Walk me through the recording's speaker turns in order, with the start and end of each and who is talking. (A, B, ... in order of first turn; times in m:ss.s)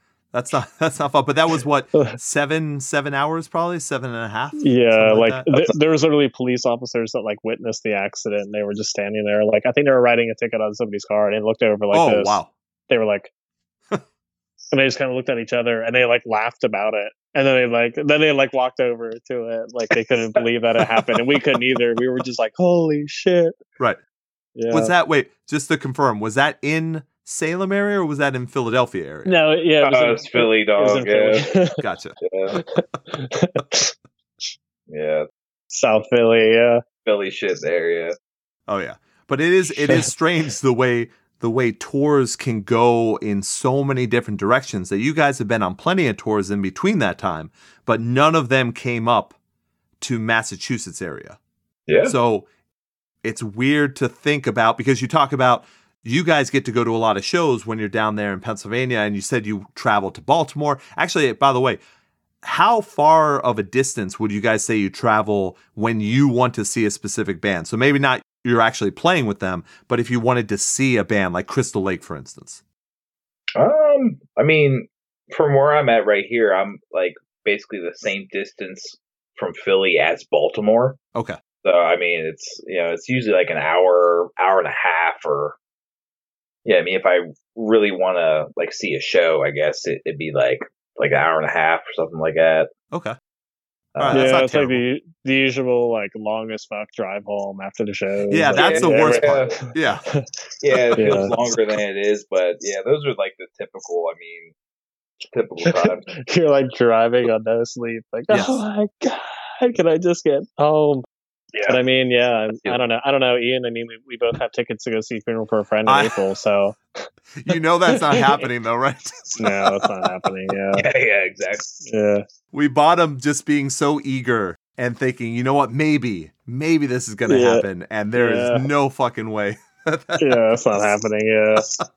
0:00.3-0:05.5 A
0:04.6-0:13.3 B
0:11.9-0:12.5 A
0:14.7-0:23.6 B
0:24.6-0:24.9 B
0:24.7-0:29.3 A
0:29.2-0:31.8 B
0:29.8-0:31.5 C
0:31.8-0:32.2 A
0:32.2-0:32.6 C
0:32.5-0:33.9 B
0:34.9-0:35.3 C
0:35.7-0:36.8 B
0:37.0-0:38.1 C
0:38.7-0:49.3 A
0:39.7-0:40.1 B
0:50.0-0:51.4 A
0:51.9-0:52.1 C
0:52.0-0:52.5 A
0:53.2-1:01.8 A
1:02.4-1:12.6 A
1:13.6-1:21.0 C
1:21.6-1:25.6 C
1:26.6-1:32.7 C
1:32.9-1:33.2 A
1:33.9-1:34.4 C
1:34.0-1:34.8 A
1:34.1-1:40.2 B
1:38.3-1:40.0 A
1:38.6-1:39.6 C
1:40.6-1:44.5 C
1:40.9-1:41.4 B
1:45.3-1:46.1 C
1:45.6-1:51.0 B
1:48.3-1:48.6 A
1:51.7-1:57.0 B
1:55.8-1:56.2 A
1:57.4-1:59.9 A
1:57.9-1:58.3 B
1:59.4-2:00.9 B
2:00.7-2:01.7 C
2:01.8-2:02.2 B
2:02.5-2:10.9 A
2:07.2-2:08.6 B
2:10.2-2:11.8 B